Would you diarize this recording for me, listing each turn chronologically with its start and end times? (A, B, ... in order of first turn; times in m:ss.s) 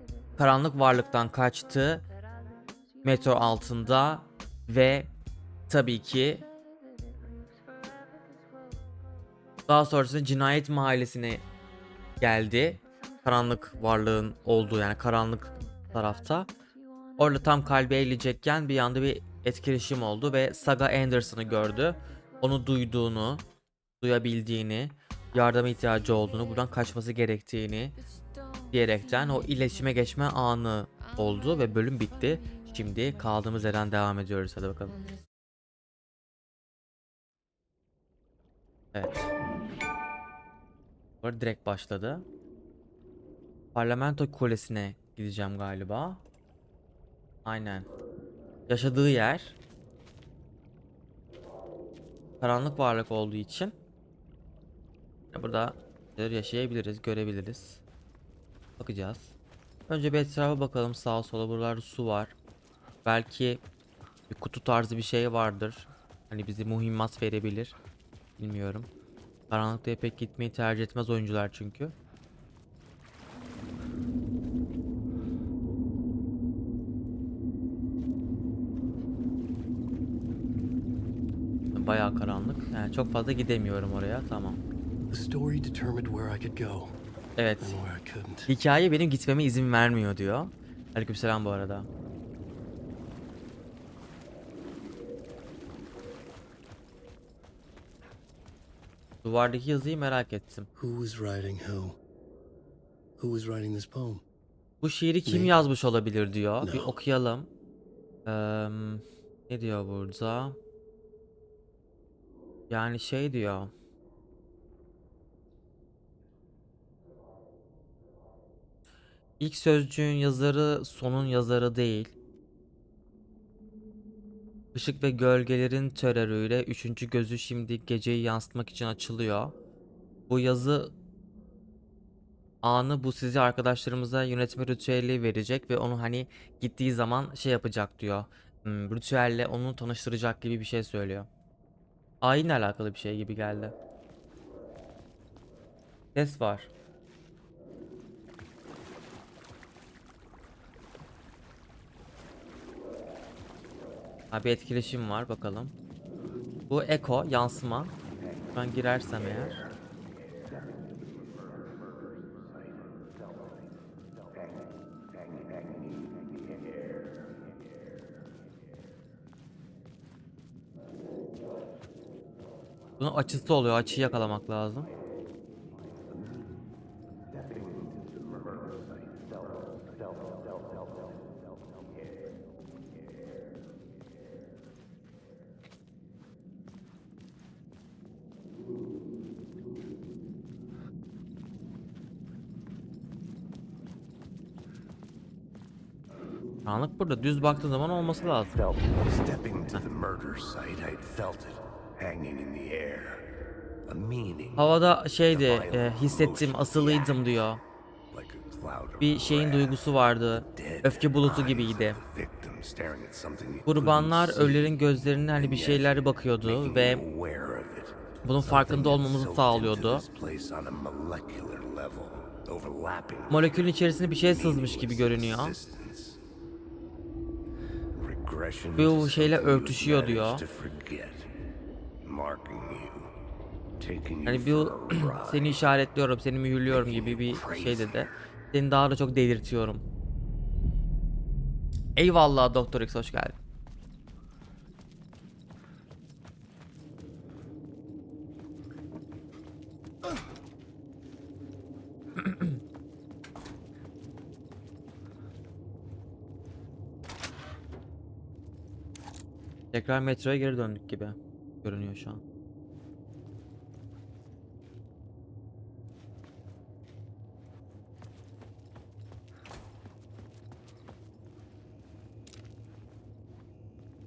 0:00.4-0:02.0 A
0:03.0-0:05.1 A
0:05.7-0:06.4 A
0:09.7-0:11.4 A
0:12.2-0:16.5 A
0:17.2-0:23.4 A
0:24.0-0:28.0 A
0:28.7-0:35.2 A
0:38.9-0:39.3 A
0:41.2-0:42.2 A
0:43.7-0:46.2 A
0:47.4-0:47.9 A
0:48.7-0:49.6 A
0:52.4-0:53.8 A
0:55.3-0:57.8 A
0:58.8-0:59.3 A
0:59.9-1:02.3 A
1:03.0-1:03.6 A
1:04.3-1:07.7 A
1:08.4-1:08.9 A
1:09.5-1:11.9 A
1:21.7-1:24.6 A
1:25.1-1:27.0 B
1:27.4-1:27.8 A
1:27.6-1:28.5 B
1:28.5-1:31.9 A
1:39.2-1:40.7 A
1:40.8-1:42.0 B
1:43.2-1:44.2 B
1:44.8-1:47.5 A
1:45.2-1:45.5 B
1:46.6-1:47.0 B
1:48.2-1:50.6 A
1:52.7-1:53.7 A
1:59.4-2:02.1 A
2:04.7-2:09.5 A
2:10.3-2:10.9 A
2:12.6-2:21.3 A
2:22.2-2:23.7 A
2:26.1-2:26.7 A
2:34.3-2:35.7 A
2:36.7-2:37.9 A
2:38.5-2:39.6 A
2:53.0-2:54.9 A
2:57.3-2:59.2 C
3:16.6-3:18.6 A
3:18.5-3:23.3 C
3:23.9-3:24.7 C
3:24.6-3:27.6 A
3:25.3-3:27.2 C
3:28.1-3:29.8 C
3:29.0-3:32.0 A
3:30.5-3:34.8 C
3:33.6-3:37.0 A
3:35.3-3:43.7 C
3:38.2-3:40.0 A
3:43.3-3:45.6 A
3:44.2-3:46.2 C
3:47.9-3:51.3 C
3:48.8-3:50.4 A
3:52.0-3:53.1 C
3:53.8-3:55.7 C
3:54.2-3:59.8 A
3:56.7-3:58.1 C
4:02.0-4:03.4 A
4:19.7-4:22.2 A